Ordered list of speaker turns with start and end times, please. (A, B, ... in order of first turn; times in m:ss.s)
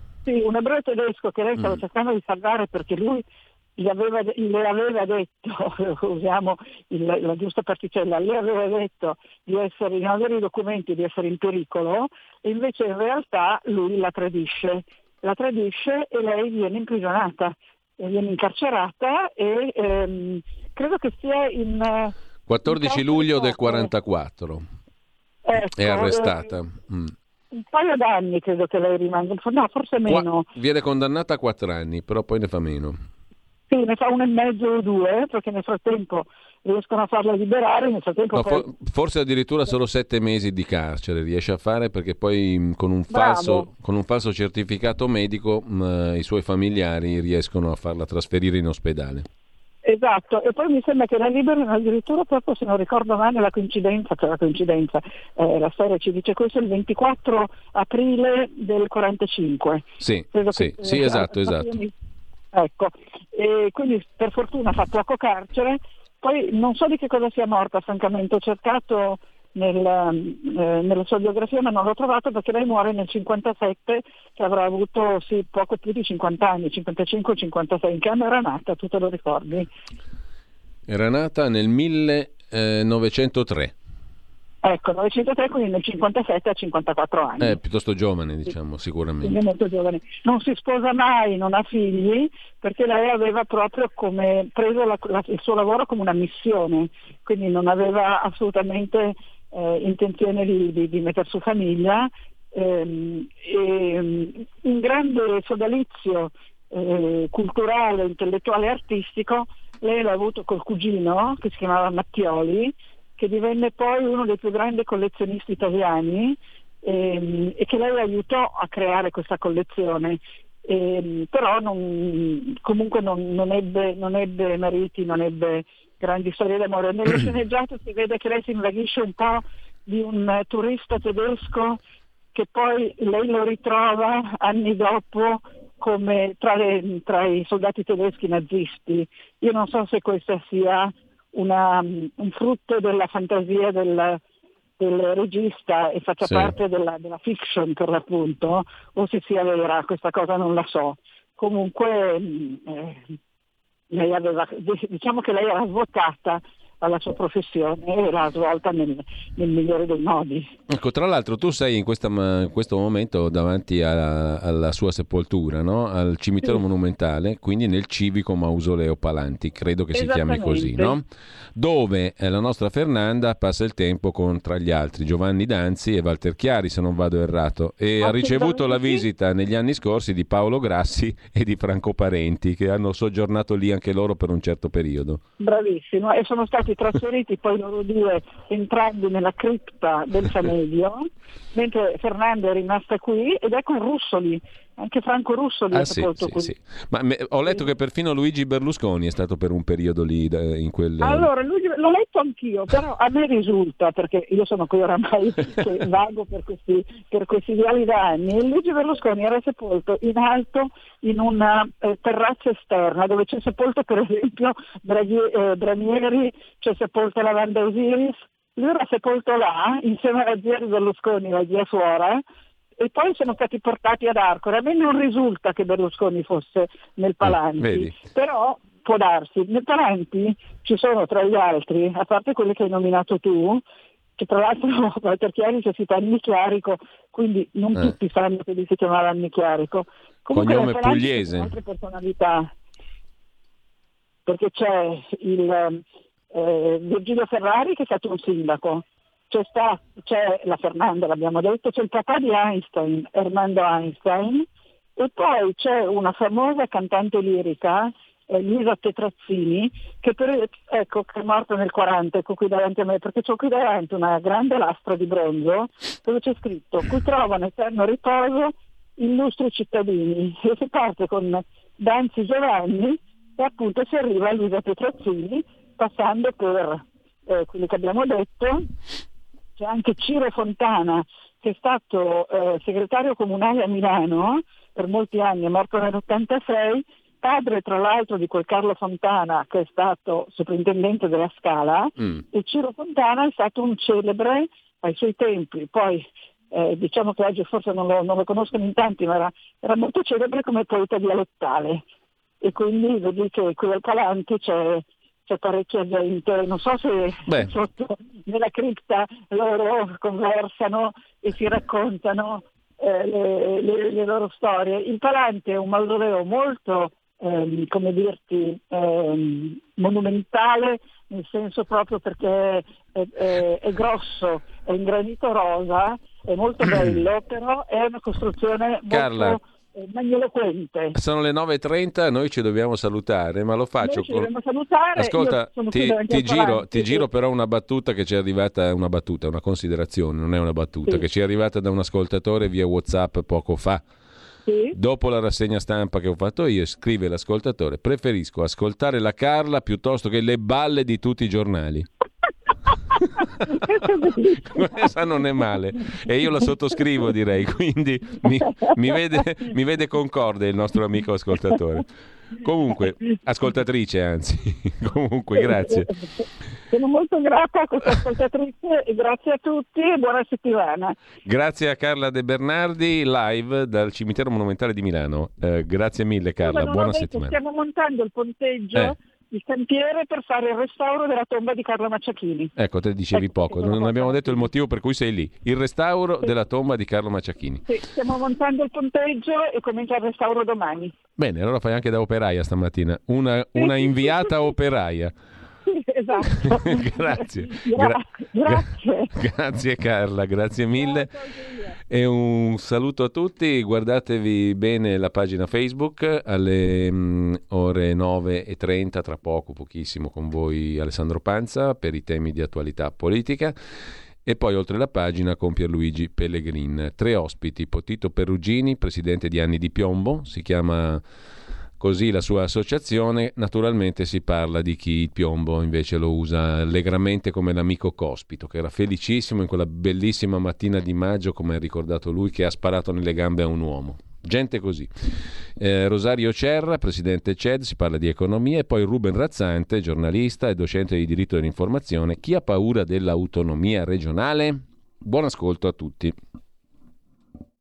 0:00.2-0:03.2 A
0:03.8-0:22.2 A
0:22.5-0:24.6 B
0:22.7-0:23.9 A
0:25.4-0:26.5 A
0:25.7-0:27.1 B
0:27.5-0:30.5 A
0:30.1-0:33.0 B
0:33.7-0:38.7 A
0:38.3-0:49.3 B
0:43.1-0:43.7 A
0:49.8-1:01.9 A
1:00.0-1:01.8 B
1:02.5-1:19.7 A
1:20.9-1:23.7 B
1:24.6-1:27.6 A
1:27.4-1:29.4 B
1:29.2-2:11.8 A
2:12.3-2:24.2 A
2:24.8-2:33.0 A
2:26.2-2:26.5 B
2:33.9-2:40.5 A
2:40.7-2:51.0 B
2:49.9-2:51.0 A
2:51.6-3:05.2 B
2:58.0-2:59.0 A
3:05.4-3:16.6 A
3:15.7-3:21.3 B
3:21.0-3:42.2 A
3:42.8-3:53.6 A
3:47.2-3:48.0 B
3:54.2-4:02.5 A
4:00.3-4:01.5 B
4:04.3-4:38.6 A
4:39.6-5:01.8 A
5:02.4-5:31.0 A
5:07.3-5:07.5 B
5:28.9-5:29.4 B
5:31.0-5:34.3 B
5:33.8-5:37.1 A
5:35.0-5:43.8 B
5:44.4-5:44.8 A
5:44.7-5:51.9 B
5:53.5-5:54.9 A
5:54.4-6:05.9 B
6:05.4-6:11.0 A
6:11.2-6:17.3 B
6:16.4-6:22.5 A
6:22.6-6:27.7 B
6:23.1-6:24.5 A
6:27.7-6:31.0 A
6:31.2-6:35.1 B
6:33.6-6:34.4 A
6:35.7-6:39.1 A
6:36.3-6:41.1 B
6:40.8-6:41.8 A
6:41.9-6:53.5 B
6:54.2-7:01.0 B
7:01.8-7:26.2 B